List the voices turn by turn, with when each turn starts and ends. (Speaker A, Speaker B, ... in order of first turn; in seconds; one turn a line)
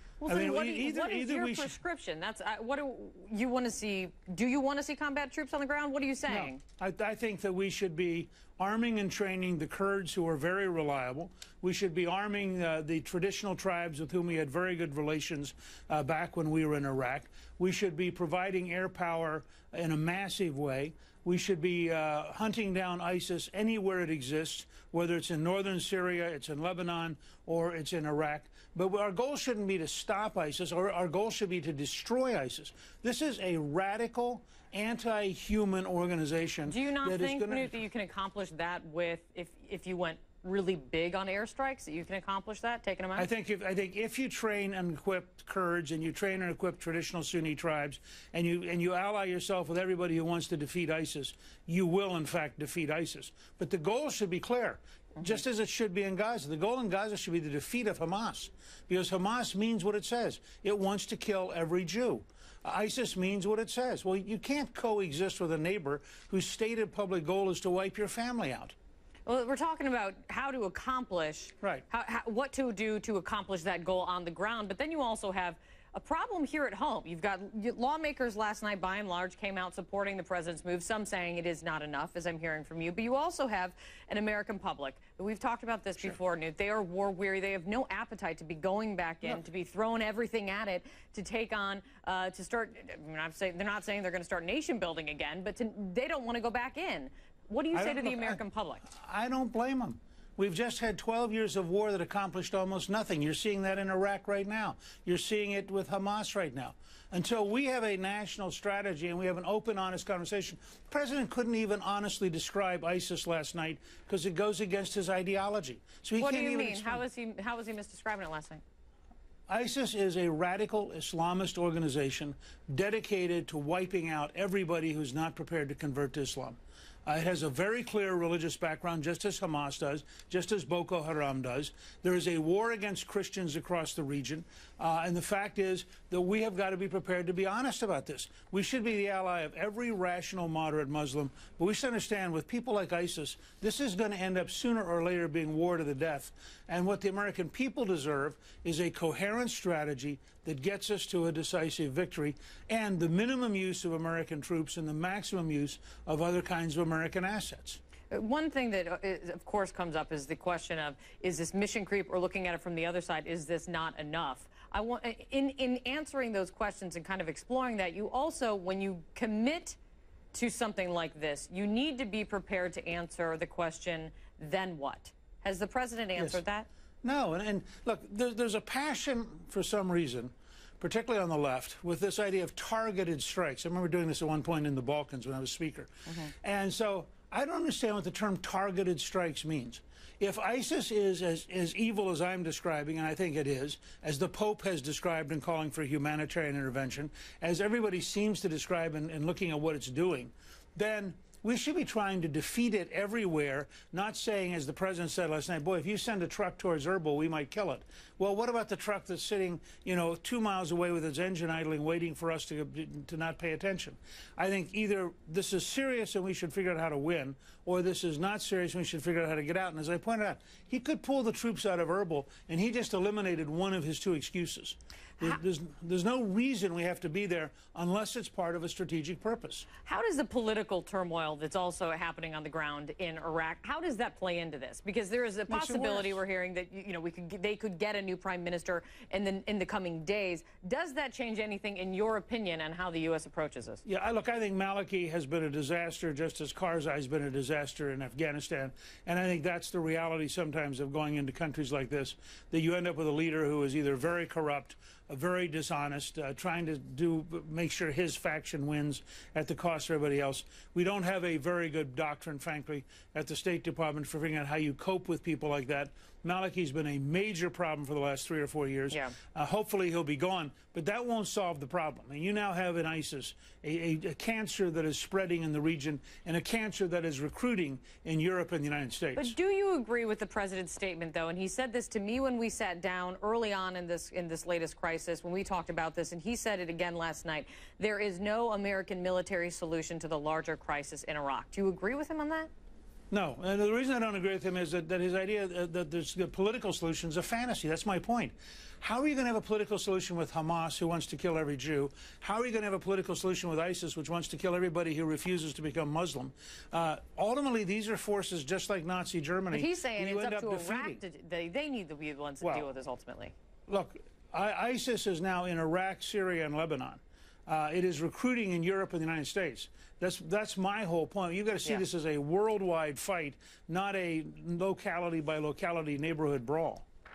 Speaker A: 0.2-6.6
Speaker B: 0.3-1.8
Speaker B: 6.3-37.8
Speaker A: 36.7-43.3
Speaker B: 43.2-68.8
Speaker A: 69.3-98.9
Speaker B: 97.7-117.0
Speaker A: 116.2-118.6
Speaker B: 119.5-157.8
Speaker A: 158.1-169.8
Speaker A: 170.3-176.7
Speaker B: 176.2-176.4
Speaker B: 177.0-229.7
Speaker A: 229.8-243.8
Speaker B: 235.5-236.2
Speaker B: 243.9-279.4
Speaker A: 279.2-292.5
Speaker B: 293.1-311.0
Speaker A: 309.5-313.3
Speaker B: 312.4-312.7
Speaker B: 313.7-326.9